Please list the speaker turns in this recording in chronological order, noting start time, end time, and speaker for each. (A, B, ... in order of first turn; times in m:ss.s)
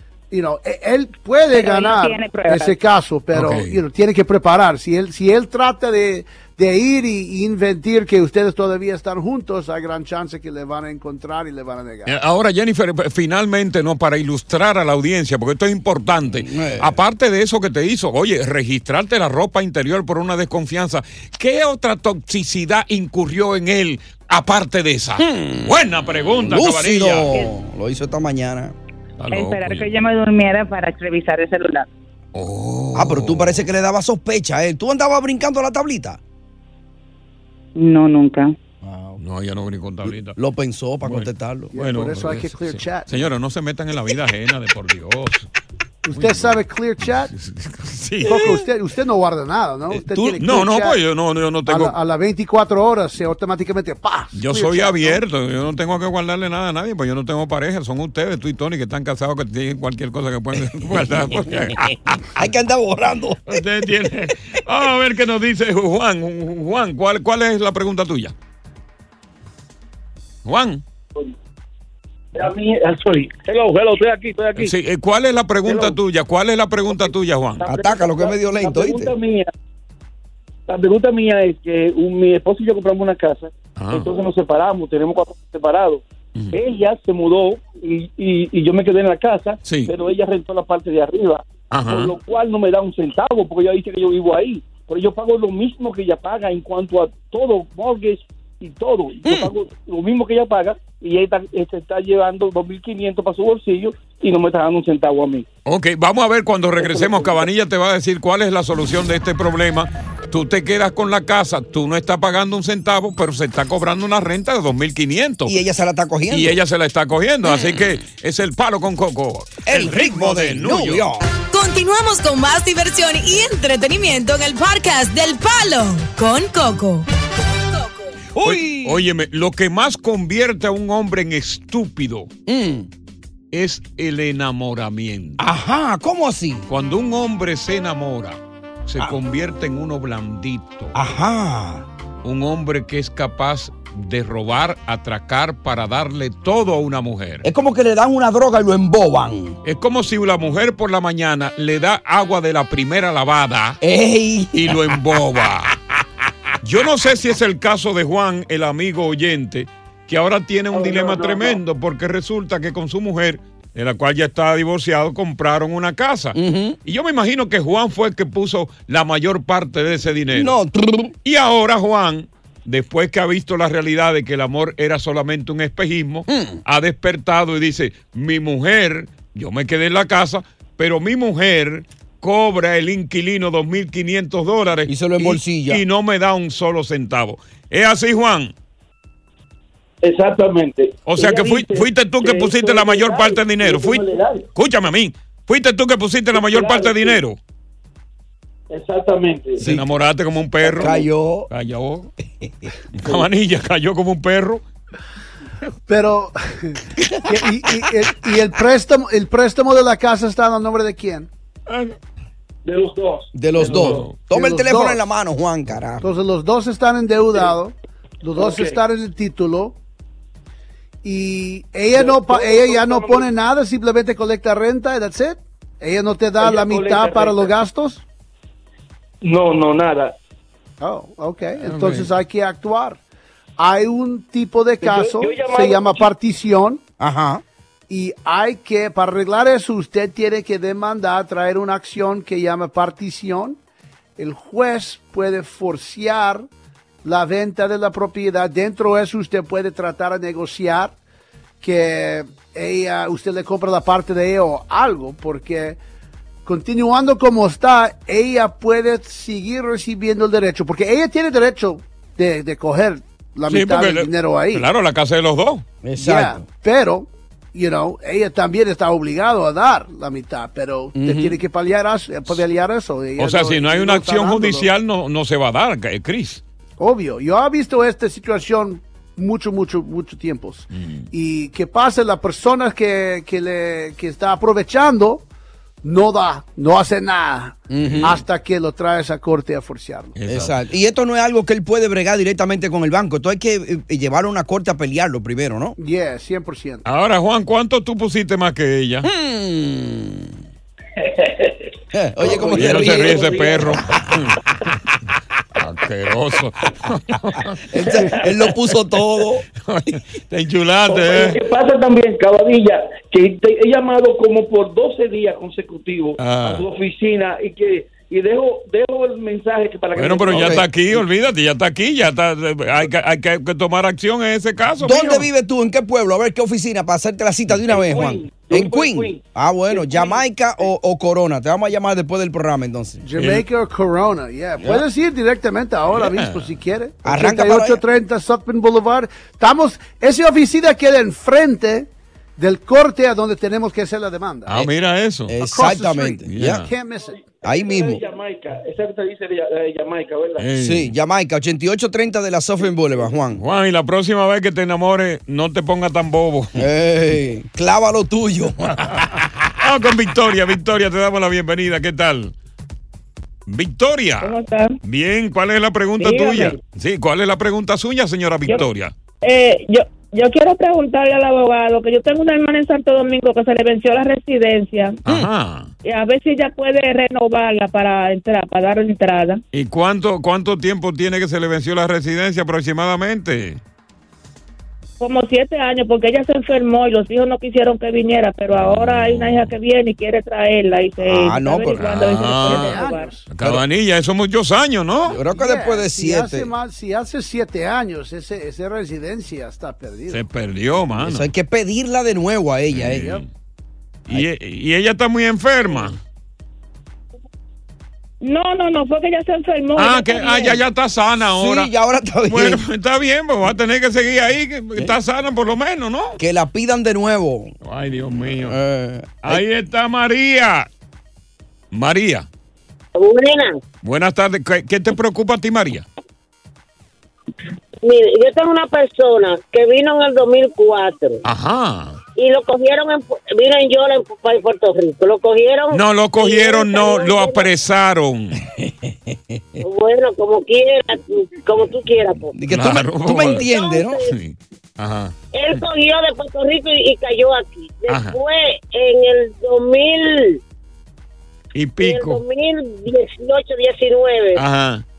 0:00.3-0:12.2 A
0:01.5-0:02.8 B
0:03.3-0:03.8 C
0:12.0-0:27.4 C
0:16.4-0:16.9 D
0:25.2-0:28.7 D
0:29.2-0:29.9 C
0:29.3-0:31.9 B
0:32.3-0:33.7 C
0:32.9-0:36.2 D
0:37.8-0:38.5 B
0:38.8-0:39.2 D
0:39.2-0:40.4 C
0:40.0-0:41.7 D
0:41.0-0:45.5 C
0:41.7-0:43.1 A
0:46.0-0:47.3 A
0:46.1-0:48.6 C
0:48.2-0:51.0 A
0:49.9-0:52.0 C
0:51.7-0:55.2 A
0:54.3-1:02.2 C
1:00.9-1:03.6 D
1:03.5-1:08.3 C
1:10.4-1:10.8 C
1:12.3-1:14.7 E
1:14.6-1:17.7 C
1:15.6-1:16.0 E
1:17.6-1:19.5 E
1:17.7-1:19.1 D
1:20.7-1:45.4 E
1:23.8-1:24.1 C
1:29.6-1:29.9 C
1:31.7-1:32.1 C
1:45.6-1:55.6 C
1:46.8-1:47.4 E
1:55.4-1:56.6 D
1:56.3-2:01.0 C
1:57.4-1:58.0 D
1:59.6-2:01.3 D
2:01.5-2:07.0 F
2:07.7-2:08.1 F
2:08.4-2:09.0 D
2:08.4-2:12.3 C
2:12.4-2:12.9 D
2:13.5-2:15.4 C
2:15.4-2:16.7 D
2:16.7-2:20.9 C
2:20.9-2:21.9 D
2:22.2-2:27.4 C
2:27.4-2:29.6 D
2:29.6-2:33.8 C
2:33.8-2:34.8 D
2:34.5-2:35.7 C
2:36.6-2:50.6 C
2:40.7-2:41.6 E
2:46.3-2:46.8 D
2:50.3-2:51.1 D
2:51.2-3:08.5 C
2:56.3-2:56.6 D
3:04.9-3:05.8 D
3:10.0-3:14.4 E
3:11.1-3:17.4 C
3:16.3-3:17.2 E
3:18.7-3:19.6 E
3:19.6-3:19.8 D
3:19.6-3:22.1 C
3:20.6-3:21.5 D
3:22.4-3:22.7 D
3:22.9-3:24.6 C
3:25.9-3:31.3 A
3:31.7-3:31.9 C
3:32.6-3:34.1 E
3:33.3-3:36.0 D
3:33.6-3:34.2 C
3:34.3-3:35.0 A
3:36.0-3:39.8 A
3:38.4-3:38.8 E
3:41.0-3:48.0 A
3:42.0-3:43.3 E
3:46.4-3:47.5 E
3:49.2-3:50.1 E
3:50.8-3:53.0 A
3:51.6-3:52.1 C
3:53.6-3:56.8 A
3:54.8-3:56.1 E
3:57.0-3:57.4 D
3:57.9-4:03.6 A
4:04.2-4:06.5 A
4:07.0-4:10.9 A
4:11.6-4:15.8 A
4:16.4-4:24.6 A
4:23.5-4:25.6 C
4:25.8-4:26.4 D
4:26.0-4:34.7 A
4:31.0-4:31.4 D
4:33.2-4:36.4 C
4:36.8-4:45.2 A
4:40.7-4:41.1 C
4:45.8-4:50.2 A
4:47.7-4:48.2 D
4:47.8-4:48.2 C
4:50.2-4:50.6 C
4:50.3-4:55.8 D
4:55.8-4:56.8 A
4:56.8-4:59.1 C
4:59.0-5:00.4 D
5:01.0-5:01.5 E
5:01.9-5:04.0 D
5:02.2-5:04.4 C
5:02.2-5:03.7 E
5:05.6-5:08.3 C
5:07.7-5:09.4 D
5:09.6-5:11.4 C
5:10.9-5:20.6 E
5:16.2-5:16.6 C
5:20.0-5:25.2 C
5:20.3-5:20.7 D
5:24.8-5:33.0 D
5:27.7-5:30.2 E
5:33.0-5:44.7 A
5:33.2-5:33.4 C
5:34.6-5:34.8 D
5:35.9-5:36.6 C
5:37.0-5:37.8 D
5:44.5-5:45.3 C
5:45.3-5:46.7 D
5:45.4-5:47.2 A
5:46.3-5:46.7 C
5:47.1-5:50.5 E
5:47.4-5:48.0 D
5:50.4-5:50.9 C
5:50.6-5:53.4 D
5:53.3-5:56.6 C
5:56.5-5:59.2 D
5:58.8-5:59.0 C
5:59.6-6:02.3 C
6:03.5-6:08.9 C
6:04.2-6:04.7 G
6:06.0-6:06.5 G
6:09.2-6:15.0 G
6:15.0-6:15.7 C
6:15.8-6:19.4 G
6:19.5-6:23.6 C
6:25.0-6:33.1 G
6:28.5-6:29.5 C
6:31.0-6:32.0 D
6:31.8-6:35.2 C
6:32.5-6:33.3 A
6:35.1-6:36.5 D
6:35.3-6:40.2 A
6:40.1-6:41.3 C
6:41.0-6:43.2 D
6:42.7-6:43.3 C
6:44.1-6:46.0 C
6:48.2-6:50.6 G
6:49.8-6:51.7 C
6:51.3-6:52.6 D
6:52.3-6:56.2 C
6:56.2-6:57.5 D
6:57.6-6:58.6 C
6:58.2-6:59.4 D
6:59.2-7:00.7 C
7:01.7-7:02.3 C
7:03.0-7:03.6 H
7:03.8-7:05.8 C
7:07.8-7:11.2 H
7:11.2-7:12.0 C
7:12.2-7:17.5 H
7:15.7-7:18.4 C
7:18.4-7:19.6 D
7:19.6-7:22.3 H
7:22.3-7:24.0 D
7:22.5-7:25.6 C
7:23.3-7:24.1 H
7:25.3-7:30.4 H
7:27.9-7:28.2 C
7:31.5-7:32.2 C
7:31.8-7:34.4 H
7:34.3-7:34.8 C